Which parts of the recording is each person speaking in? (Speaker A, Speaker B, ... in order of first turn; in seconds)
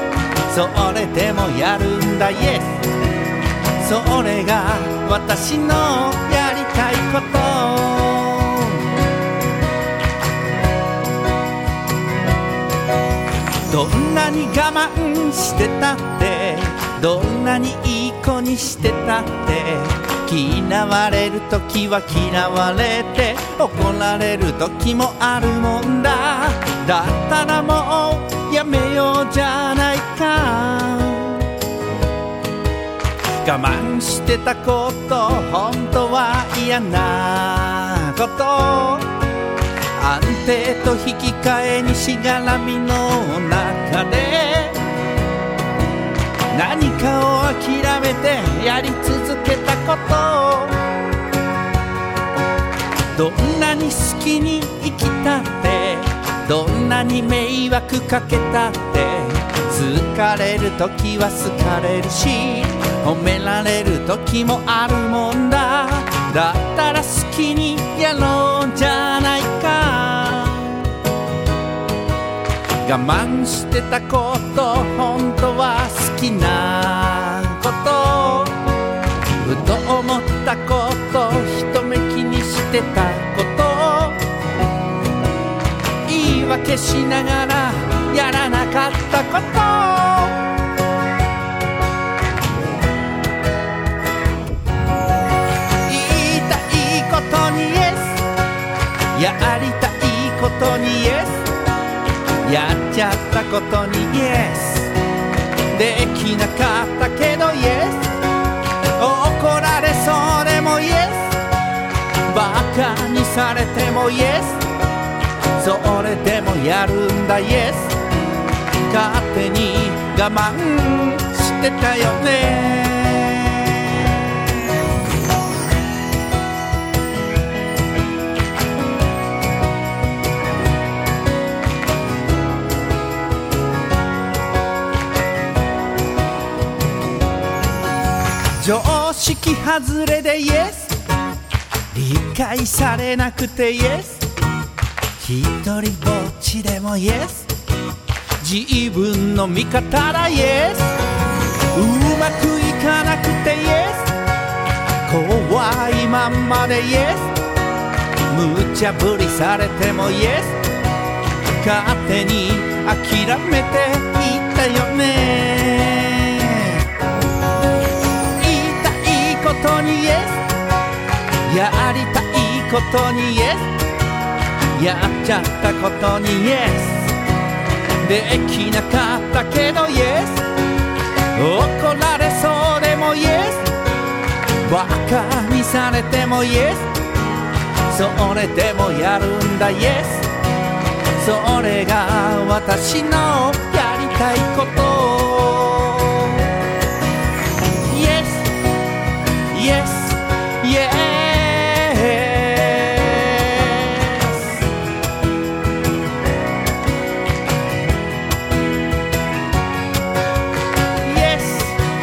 Speaker A: 0.5-2.8, 3.8-8.8, 13.7-31.4, 33.4-39.1, 40.0-44.8, 46.5-50.8, 53.1-70.8, 72.8-78.5, 79.4-84.2, 86.0-90.4, 95.8-98.2, 99.1-101.5, 102.4-104.9, 105.7-108.2, 109.0-111.4, 112.3-114.7, 115.5-118.0, 118.9-123.8, 138.6-141.0, 141.9-144.3, 145.2-147.5, 148.4-151.0, 151.7-154.1, 155.0-157.3, 158.3-160.6, 161.5-166.8, 168.3-170.5, 171.4-173.7, 174.7-177.1, 178.0-180.4, 181.3-183.7, 184.6-186.9, 187.9-190.3, 191.2-196.4, 197.8-198.5, 199.5-204.6, 211.0-211.8